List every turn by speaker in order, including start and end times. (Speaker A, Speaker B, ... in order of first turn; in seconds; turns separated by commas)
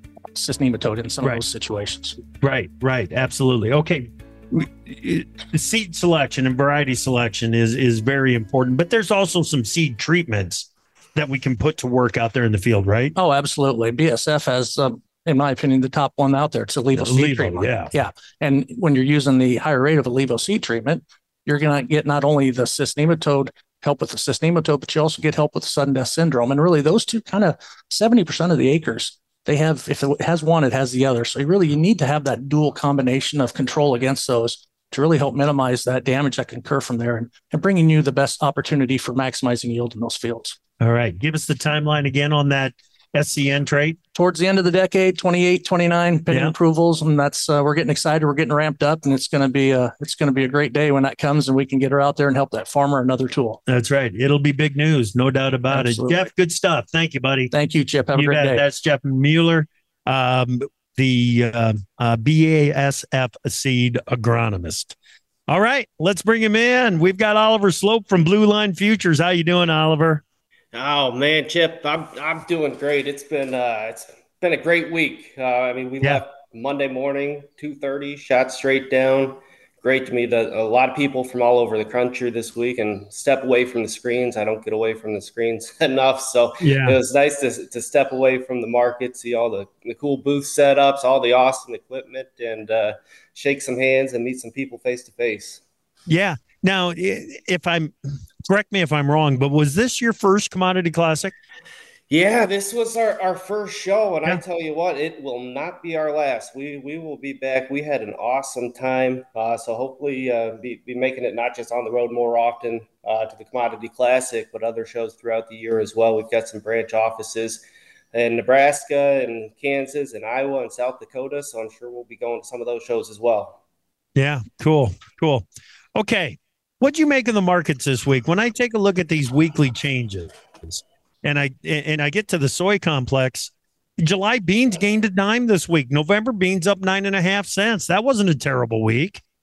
Speaker A: 0.3-2.2, Speaker B: 2.4-13.1, Speaker A: 13.1-40.6, Speaker B: 16.9-17.9, Speaker B: 40.8-44.0, Speaker A: 44.1-53.6, Speaker B: 46.3-46.5, Speaker B: 53.7-57.5, Speaker A: 55.7-56.2, Speaker A: 57.5-58.6, Speaker B: 58.1-64.9, Speaker B: 65.5-70.2, Speaker C: 70.7-95.6, Speaker B: 86.6-87.0, Speaker B: 96.1-101.3, Speaker C: 102.1-123.6, Speaker B: 124.2-139.2